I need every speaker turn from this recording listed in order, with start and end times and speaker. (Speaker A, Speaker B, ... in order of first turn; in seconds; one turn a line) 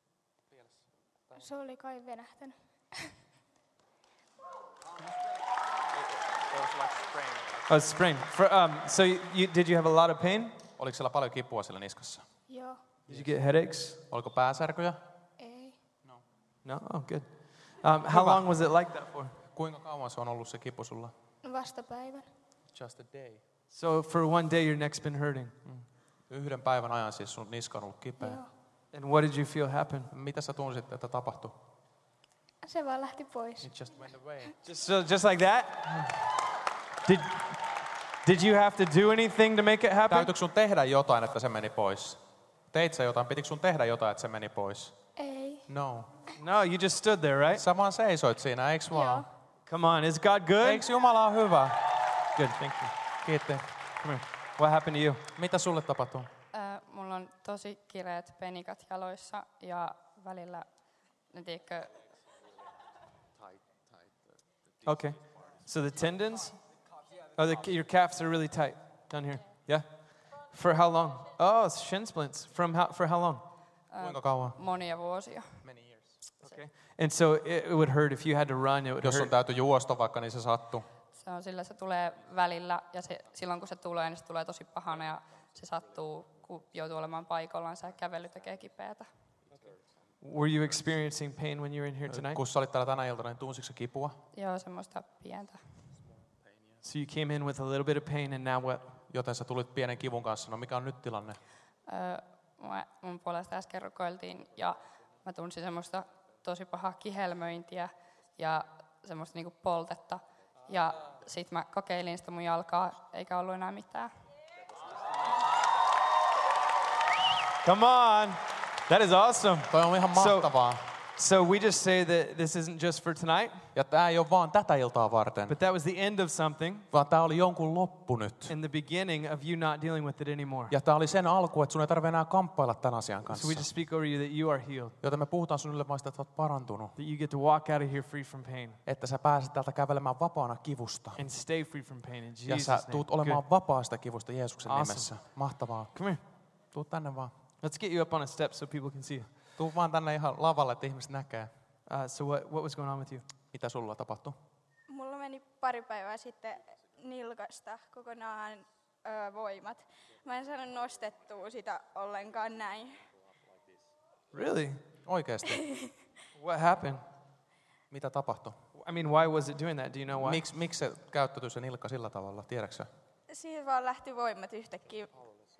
Speaker A: 1.3-3.0
Speaker B: 7.7-10.6
Speaker C: 10.8-12.2
Speaker A: 12.5-12.8
Speaker B: 13.1-14.0
Speaker C: 14.1-15.0
Speaker A: 15.4-15.8
Speaker B: 16.6-19.3
Speaker C: 18.1-18.4
Speaker C: 19.5-21.1
Speaker A: 21.4-22.3
Speaker C: 22.7-23.4
Speaker B: 23.7-25.5
Speaker C: 25.6-28.4
Speaker A: 28.2-28.5
Speaker B: 28.9-30.1
Speaker C: 30.1-31.5
Speaker A: 32.6-33.7
Speaker C: 33.6-34.5
Speaker B: 34.6-36.2
Speaker B: 37.0-37.5
Speaker B: 38.2-40.3
Speaker C: 40.1-42.2
Speaker C: 42.7-44.9
Speaker A: 45.1-45.6
Speaker C: 45.7-46.1
Speaker B: 46.4-47.6
Speaker C: 47.5-49.3
Speaker A: 48.9-49.3
Speaker B: 49.7-50.8
Speaker C: 50.6-51.8
Speaker B: 52.4-52.9
Speaker C: 53.2-53.6
Speaker B: 54.0-55.2
Speaker C: 55.3-56.3
Speaker D: 56.5-60.7
Speaker D: 61.3-62.0
Speaker B: 64.8-66.6
Speaker B: 67.3-73.4
Speaker D: 73.9-75.6
Speaker C: 74.0-74.6
Speaker C: 75.6-76.0
Speaker B: 76.4-79.3
Speaker C: 79.0-80.8
Speaker D: 81.2-89.1
Speaker B: 90.2-92.4
Speaker C: 92.1-94.2
Speaker D: 94.3-95.6
Speaker B: 96.8-98.9
Speaker C: 99.1-101.4
Speaker D: 101.9-114.1
Speaker B: 117.6-120.5
Speaker C: 119.7-120.8
Speaker B: 121.2-123.6
Speaker C: 123.7-125.5
Speaker B: 125.5-126.9
Speaker C: 126.9-128.5
Speaker B: 128.5-130.7
Speaker C: 130.7-133.7
Speaker B: 133.3-134.9
Speaker C: 135.0-136.9
Speaker B: 136.9-138.8
Speaker C: 138.8-141.2
Speaker B: 141.2-143.4
Speaker C: 142.4-145.9
Speaker B: 144.7-145.2
Speaker B: 145.9-146.2
Speaker C: 146.7-147.3
Speaker B: 147.6-149.3
Speaker C: 149.6-151.5
Speaker B: 151.9-153.2
Speaker C: 153.5-154.4
Speaker E: 154.9-163.0
Speaker B: 164.3-164.8
Speaker C: 165.1-165.7
Speaker E: 165.6-165.9
Speaker B: 166.3-167.0
Speaker C: 167.9-168.6
Speaker B: 168.8-170.4
Speaker C: 170.1-172.9
Speaker E: 173.3-175.1